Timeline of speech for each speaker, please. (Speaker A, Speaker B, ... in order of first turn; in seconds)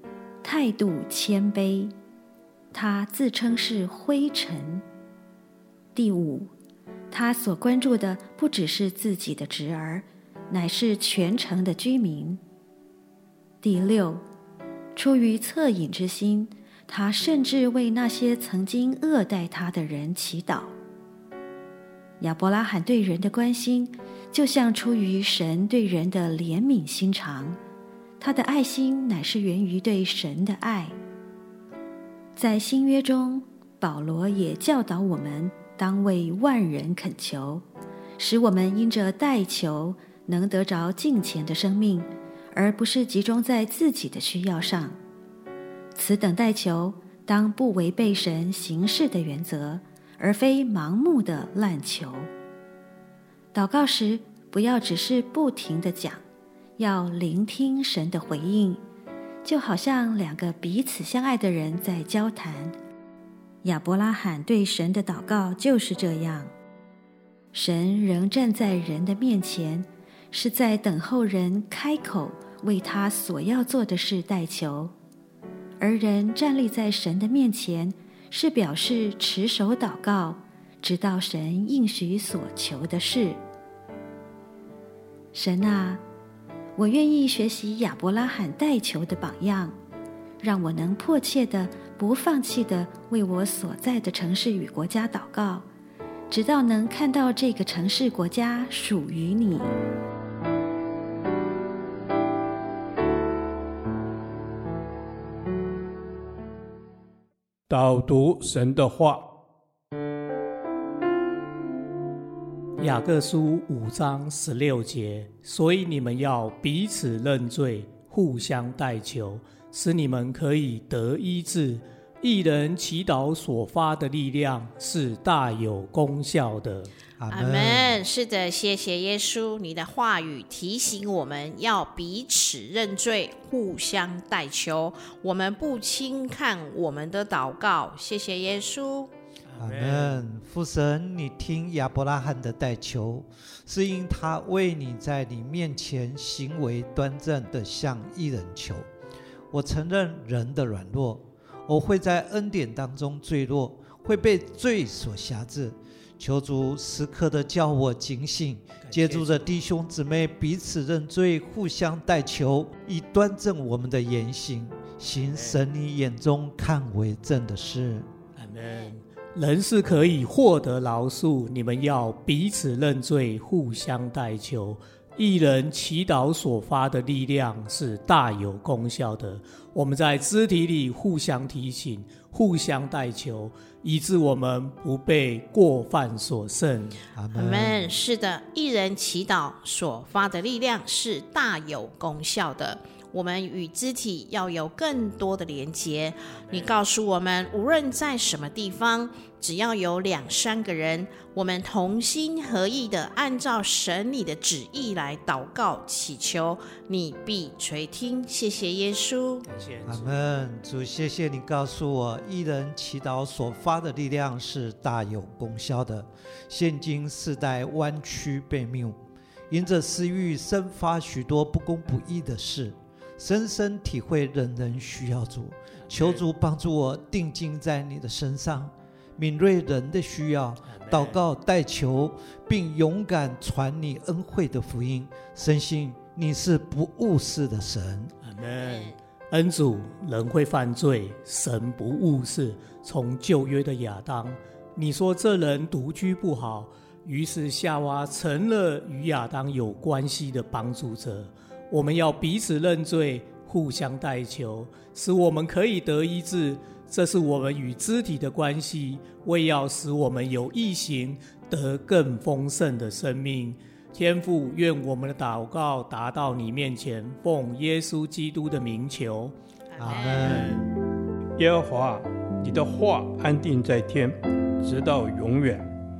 Speaker A: 0.4-1.9, 2.7-4.8, 5.9-6.5, 7.1-12.4, 13.6-14.2, 14.9-20.7, 22.2-27.6, 28.2-30.9, 32.4-37.6, 38.2-45.0, 45.9-52.3, 53.5-56.2, 56.8-58.8, 59.4-62.8, 63.6-66.5, 67.5-74.9, 75.8-83.4, 85.3-86.0, 86.8-89.8, 90.4-95.7, 96.3-99.7
Speaker B: 107.7-109.2, 271.4-275.7
Speaker C: 112.8-126.9, 139.5-140.2, 158.8-159.5, 165.1-165.6, 168.3-187.0, 209.5-210.2, 225.8-226.2, 230.7-231.2, 238.2-269.3, 269.9-270.6
Speaker D: 127.2-128.0, 139.6-148.8, 149.5-168.1, 187.1-187.9, 209.8-219.0, 219.5-238.1, 269.8-270.5
Speaker E: 127.3-139.1, 187.3-209.4, 238.6-239.0, 269.7-270.5